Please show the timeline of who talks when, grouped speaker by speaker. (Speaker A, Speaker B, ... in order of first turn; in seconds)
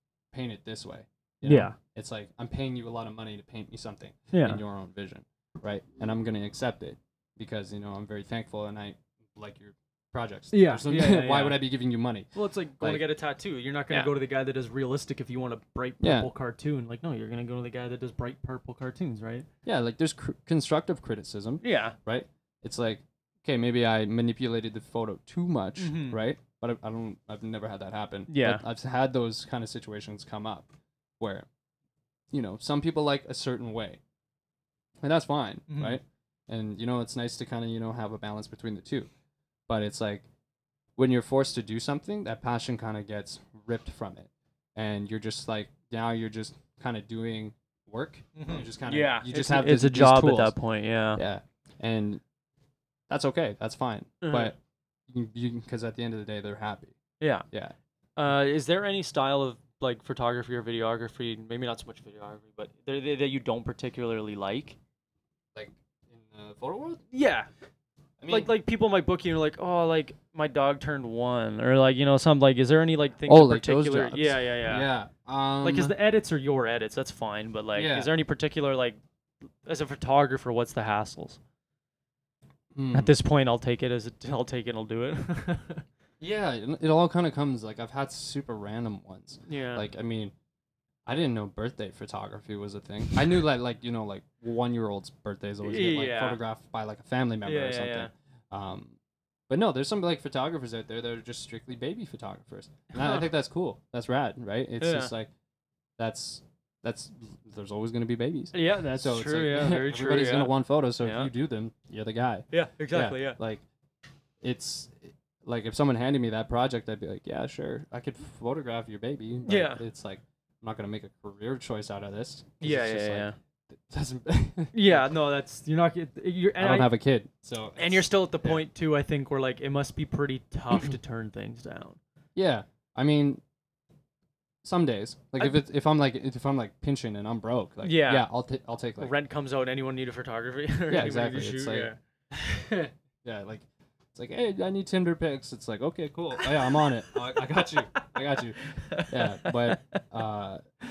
Speaker A: 0.3-13.0, 16.0-16.3, 19.6-30.7, 31.2-31.5, 32.3-34.0, 35.0-39.1, 39.7-40.3, 41.0-50.5, 51.1-52.2, 53.1-54.6, 55.1-57.0, 65.5-67.0, 68.2-68.5, 73.2-75.9, 77.7-78.1, 82.7-83.1, 86.2-90.3, 91.0-99.0, 99.5-105.3, 106.0-113.6, 114.4-125.0, 126.6-128.6, 132.3-133.4, 134.6-139.1, 140.9-150.6
Speaker B: 1.4-1.8, 4.3-4.6, 10.5-11.6, 12.3-19.5, 21.6-22.0, 25.8-26.2, 28.3-28.6, 35.7-36.0, 48.3-51.2, 54.2-54.5, 57.2-57.5, 58.2-64.8, 67.1-67.5, 68.3-74.9, 75.6-79.0, 79.6-81.4, 82.9-85.8, 89.5-89.9, 95.6-96.4, 97.4-98.1, 102.9-103.3, 104.8-105.1, 108.5-111.3, 112.5-113.4, 119.4-119.8, 122.6-123.3, 124.7-126.9, 127.8-132.0, 137.8-138.2, 139.0-142.0, 146.5-146.8, 148.6-150.0